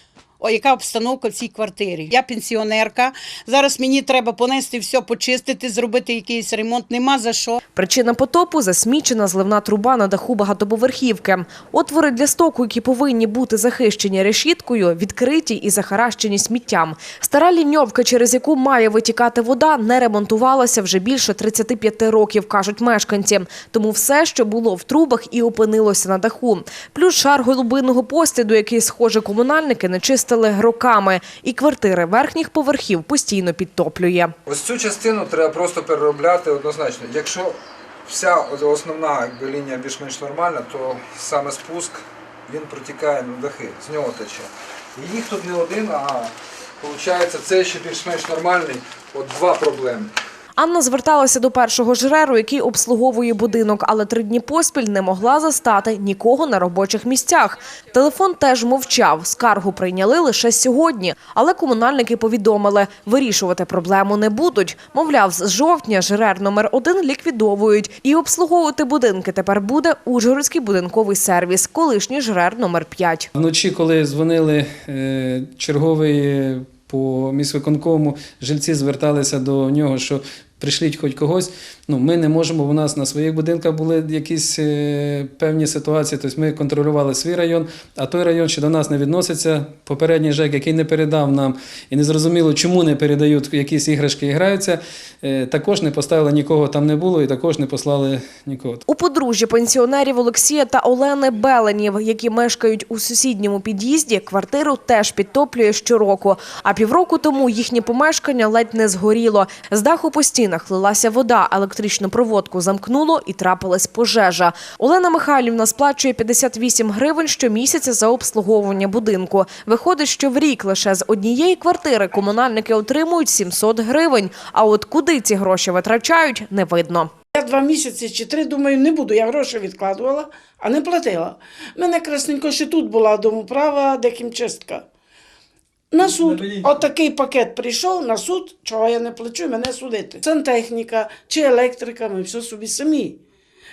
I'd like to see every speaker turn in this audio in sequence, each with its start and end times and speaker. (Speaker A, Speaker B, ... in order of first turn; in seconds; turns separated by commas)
Speaker A: 0.4-7.6, Speaker B: 7.8-34.3, Speaker C: 34.5-50.1, Speaker B: 50.6-73.3, Speaker D: 73.4-98.8, Speaker B: 98.9-127.1, Speaker E: 127.3-134.8, Speaker E: 135.9-143.2